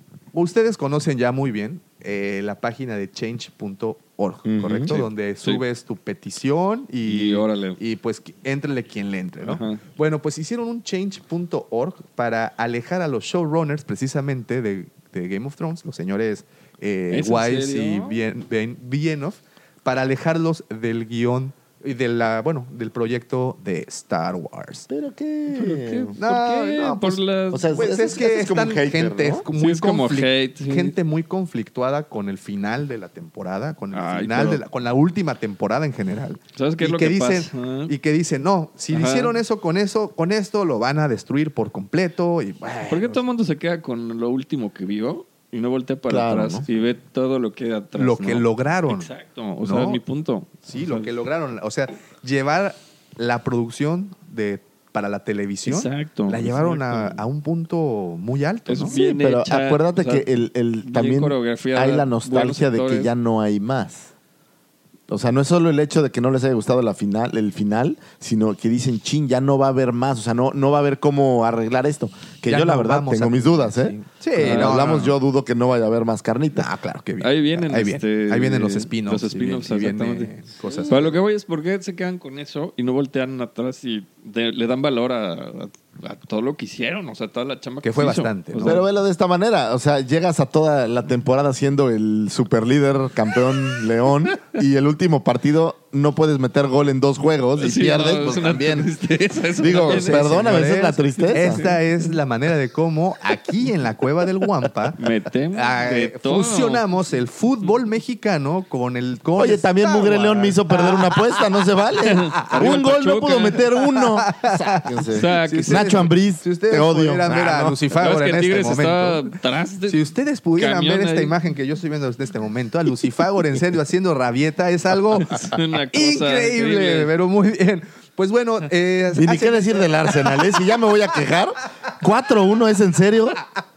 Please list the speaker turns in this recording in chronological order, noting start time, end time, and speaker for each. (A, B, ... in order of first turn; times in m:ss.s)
0:00.3-0:24.9 A
0:04.4-0:05.0 B
0:04.9-0:05.6 C
0:07.0-0:07.8 C
0:09.4-0:09.8 C
0:17.1-0:18.2 C
0:24.9-0:26.2 B
0:25.5-0:27.9 C
0:26.2-0:27.2 A
0:27.5-0:29.5 B
0:27.7-0:43.2 A
0:29.6-0:31.0 C
0:33.9-0:34.6 C
0:36.6-0:37.9 C
0:38.9-0:39.4 C
0:42.9-0:51.1 C
0:46.1-0:46.7 B
0:48.0-0:49.1 A
0:49.6-0:50.0 A
0:50.7-0:59.0 A
0:55.7-0:57.2 C
0:58.7-1:00.3 C
0:58.9-1:04.1 B
1:00.8-1:03.1 C
1:05.1-1:16.7 B
1:12.5-1:15.1 A
1:14.4-1:14.8 C
1:16.6-1:21.2 A
1:17.2-1:28.8 C
1:27.8-1:28.8 A
1:28.6-1:38.9 B
1:37.6-1:40.6 C
1:39.6-1:41.7 B
1:39.8-1:45.0 A
1:41.2-1:42.1 C
1:45.0-1:46.9 C
1:45.5-1:51.0 A
1:49.4-1:57.8 B
1:52.0-1:53.6 C
1:52.4-1:52.6 A
1:54.2-1:54.9 A
1:55.1-1:55.9 C
1:55.4-1:59.3 A
1:57.9-2:00.0 C
1:59.9-2:10.4 A
2:00.6-2:01.4 C
2:05.2-2:07.1 C
2:09.1-2:13.4 B